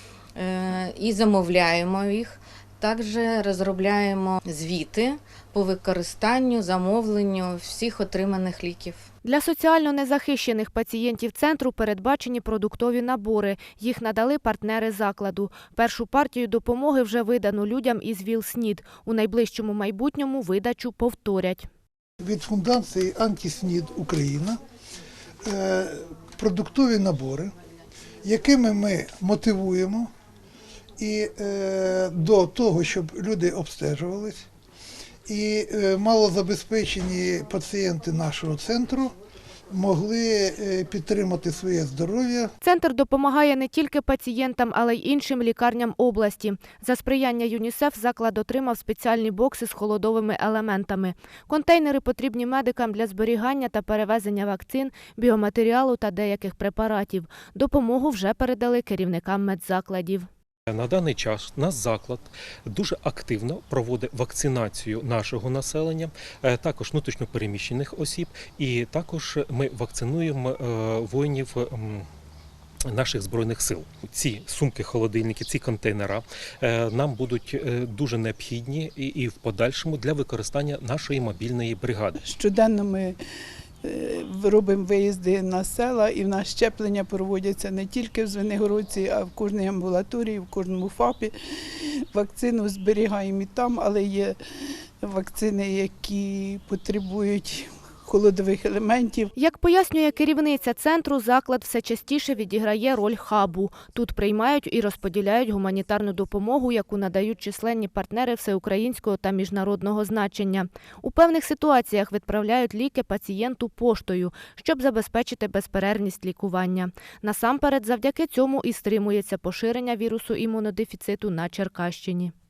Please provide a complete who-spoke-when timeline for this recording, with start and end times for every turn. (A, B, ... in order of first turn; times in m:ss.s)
0:00.4-0:09.0 A
0:09.2-0:21.7 B
0:22.2-0:24.6 C
0:25.4-0:27.5 C
0:28.2-0:30.1 C
0:31.0-0:34.4 C
0:35.3-0:39.1 C
0:39.7-0:42.5 C
0:42.6-1:00.3 B
1:00.7-1:12.1 D
1:12.9-1:22.2 D
1:22.2-1:23.2 E
1:23.8-1:34.4 E
1:35.0-1:39.3 E
1:39.4-2:02.3 B